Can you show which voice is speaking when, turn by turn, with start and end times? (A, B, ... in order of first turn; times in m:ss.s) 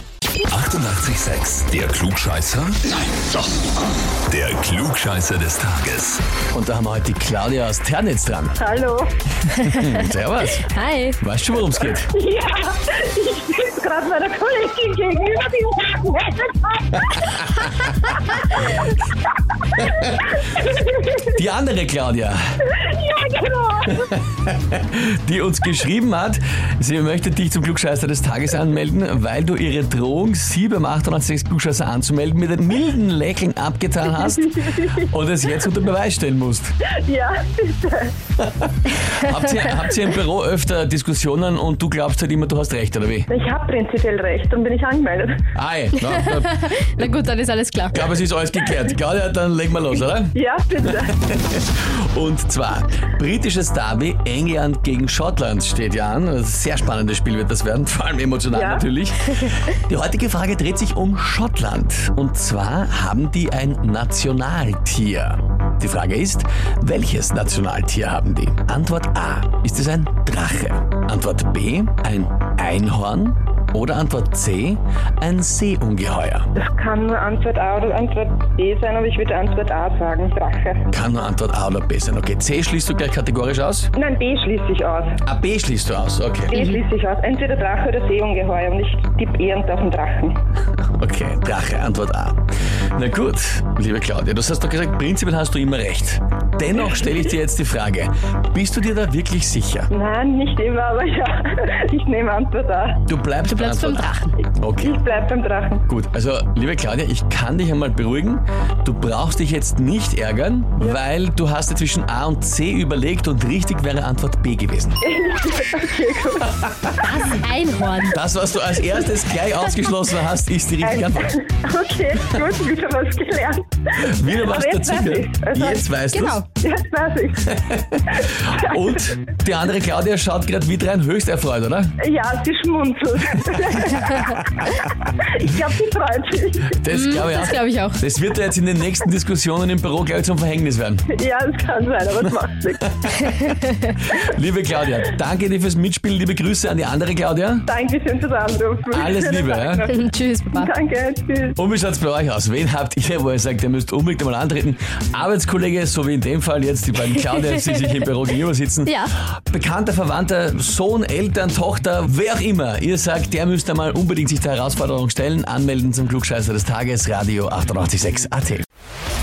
0:00.5-0:02.8 A
0:04.3-0:06.2 A
0:06.5-0:08.6 B
0:08.6-0:09.1 C
0:09.5-0:12.1 B
0:10.7-0:11.2 D
0:12.0-0:17.6 C
0:17.2-0:17.8 B
0:19.8-0:20.3 B
0:20.7-0:21.0 C
0:21.2-0:22.4 B
0:22.7-0:24.1 C
0:24.0-0:36.7 B
0:34.6-0:35.0 C
0:36.9-0:38.1 C
0:38.4-0:43.3 B
0:43.3-0:45.4 C
0:45.6-0:47.1 B
0:46.3-0:48.1 D
0:47.9-1:16.5 B
0:50.3-0:51.3 C
0:58.5-0:58.8 C
1:16.6-1:20.9 C
1:20.9-1:23.9 B
1:24.0-1:25.2 C
1:25.2-1:26.6 B
1:26.5-1:30.4 C
1:26.5-1:26.8 D
1:31.0-1:32.4 B
1:33.0-1:39.9 B
1:39.9-1:43.0 C
1:43.1-1:45.0 B
1:43.5-1:44.3 D
1:44.8-1:45.9 C
1:45.9-1:55.0 B
1:55.0-1:57.1 C
1:56.6-1:56.9 B
1:57.0-1:58.2 D
1:58.1-2:01.4 B
2:00.8-2:05.9 C
2:04.0-2:06.4 B
2:06.1-2:06.4 D
2:06.6-2:07.6 C
2:07.4-2:11.9 B
2:08.2-2:08.8 C
2:12.0-2:16.8 C
2:16.7-2:21.1 B
2:16.9-2:18.0 D
2:21.1-2:22.8 C
2:22.9-2:27.7 B
2:27.7-2:31.6 C
2:28.9-2:29.9 B
2:29.9-2:30.7 D
2:31.6-2:48.6 B
2:38.8-2:39.1 D